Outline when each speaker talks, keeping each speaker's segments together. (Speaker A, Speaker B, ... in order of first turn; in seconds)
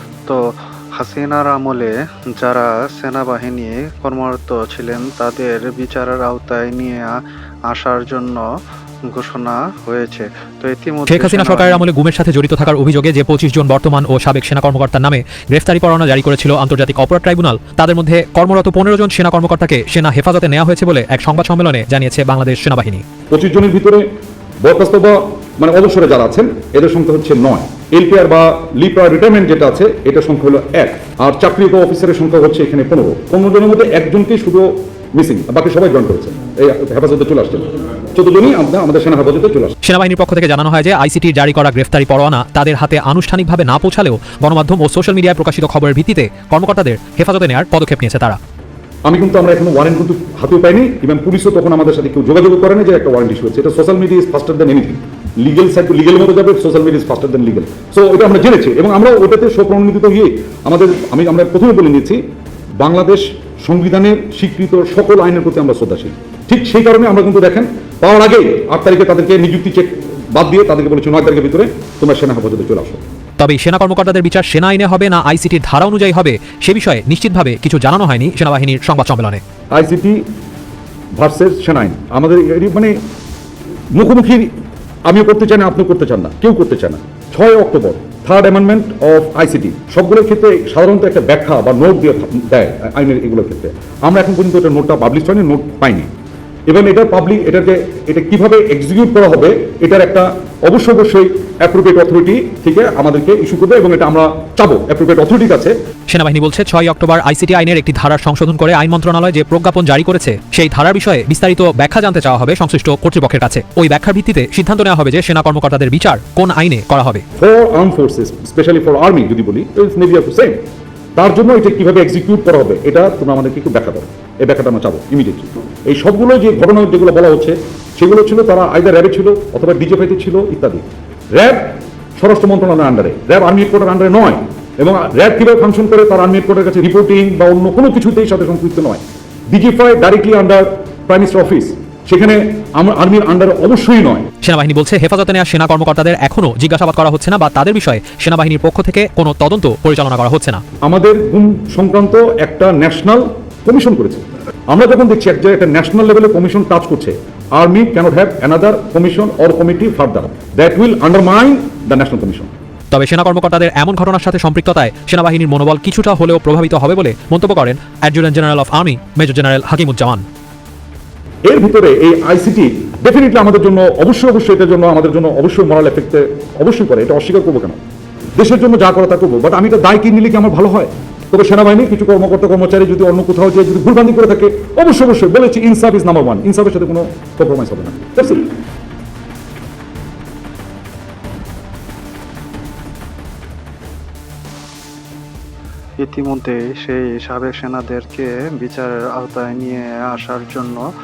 Speaker A: 1.0-7.1, 7.7-8.4, 9.1-11.8, 196.0-200.8
Speaker B: 11.1-23.0, 39.8-48.4, 73.4-79.4, 106.1-117.2, 144.4-150.6, 162.9-170.2
Speaker C: 23.3-24.1, 24.6-39.8, 49.1-62.2, 62.8-73.0, 79.7-80.2, 81.2-82.9, 83.9-84.5, 85.1-96.1, 96.7-105.7, 117.4-120.6, 121.2-130.8, 131.3-144.2, 150.8-162.5, 171.5-177.8, 178.4-188.5